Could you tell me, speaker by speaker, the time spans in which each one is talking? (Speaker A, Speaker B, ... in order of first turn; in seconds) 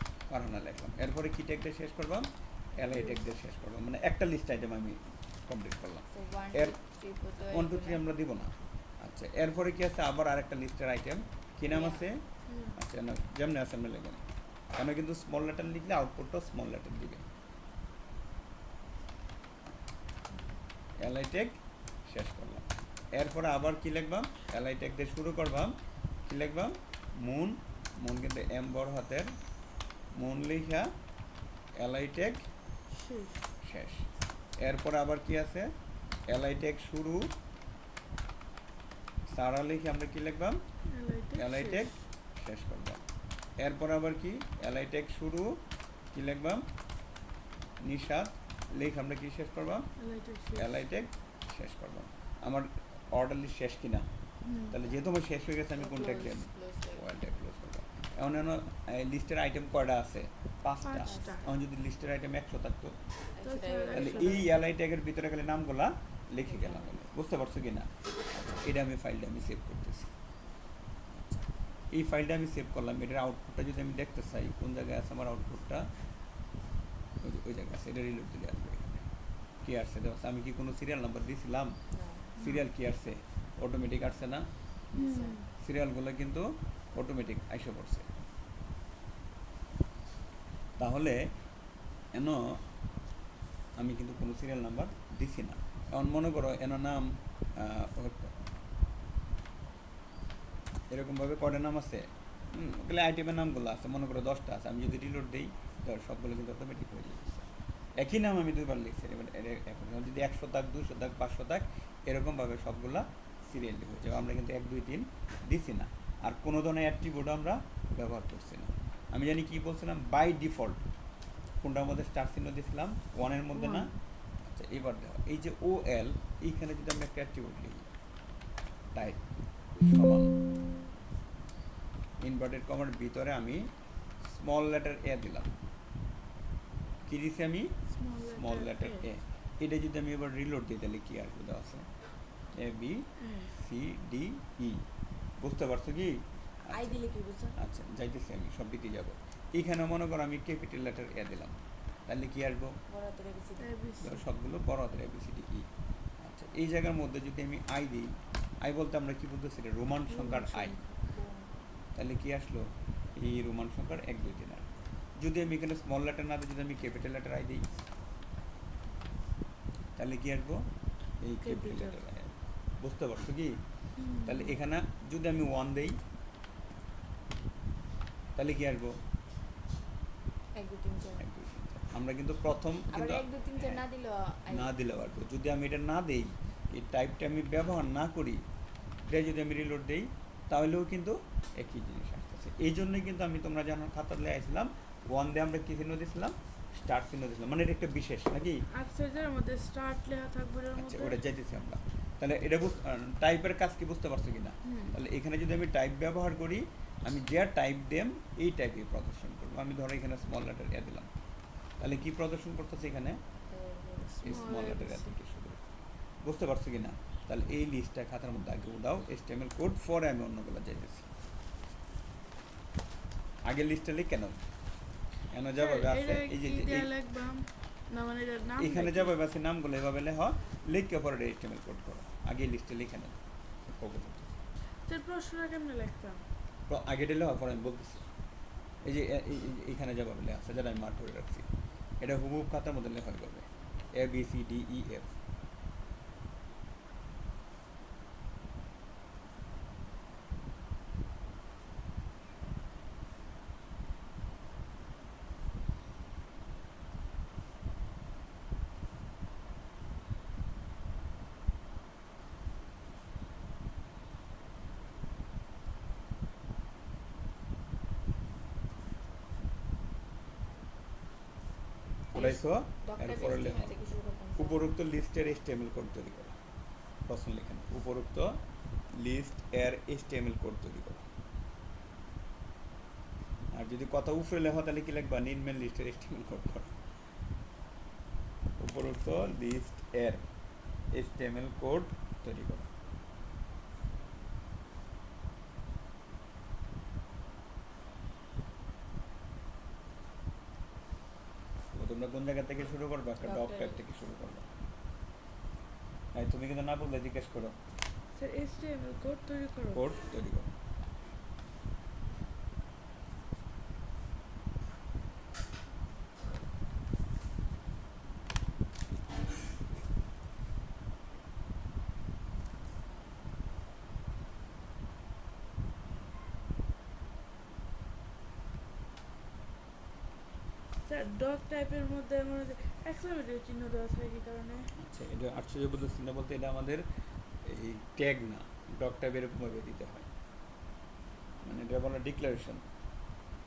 Speaker A: 0.3-6.8, 7.4-12.2, 12.7-14.2, 14.7-17.2, 21.0-29.3, 30.1-30.9, 31.8-32.5, 33.6-34.1, 34.6-35.7, 36.3-37.3, 39.3-40.6, 41.3-43.0, 43.6-45.6, 46.1-46.6, 47.8-49.9, 50.5-54.1, 54.7-63.0, 63.9-70.1, 71.1-75.9, 77.2-79.1, 79.6-81.8, 82.4-84.5, 85.6-88.1, 90.8-91.3, 92.1-92.6, 93.8-98.3, 100.9-120.8, 121.6-123.9, 124.4-127.9, 128.9-129.2, 129.8-130.3, 132.2-133.7, 134.2-135.5, 137.1-141.9, 142.5-144.8, 145.4-147.0, 147.6-152.8, 154.0-155.7, 156.2-160.8, 161.9-167.7, 170.0-170.6, 171.2-173.6, 174.2-176.0, 178.3-179.0, 181.2-183.8, 184.5-188.4, 189.1-198.6, 200.8-211.1, 211.8-213.2, 214.2-215.6, 216.2-221.1, 223.4-224.4, 225.3-226.9, 228.6-234.3, 236.7-238.1, 238.8-241.5, 242.0-245.1, 272.1-276.3, 277.1-278.4, 278.9-281.1, 283.5-286.7, 288.6-290.2, 290.9-292.7, 301.7-304.4, 306.1-307.6, 309.7-310.5, 334.8-336.8, 337.4-340.1, 341.4-342.6
Speaker B: 2.9-3.2, 12.5-12.8, 32.9-33.5, 40.9-41.9, 50.0-50.7, 54.4-54.8, 60.8-61.4, 63.4-64.5, 82.4-82.7, 84.9-85.5, 123.5-124.0, 137.9-139.0, 143.2-143.5, 153.6-154.3, 160.1-161.1, 171.4-172.0, 174.0-174.5, 198.7-201.2, 204.6-205.0, 214.2-215.2, 225.5-229.1, 234.8-236.2, 308.1-309.9, 330.8-334.7
Speaker C: 6.1-8.0, 11.6-12.1, 20.3-20.6, 55.7-57.0, 61.0-61.6, 63.3-64.5, 66.4-67.0, 81.9-82.3, 84.9-85.5, 146.7-147.6, 152.9-153.7, 161.1-161.6, 180.5-181.3, 182.9-184.7, 213.5-214.7, 272.1-274.7, 303.2-303.8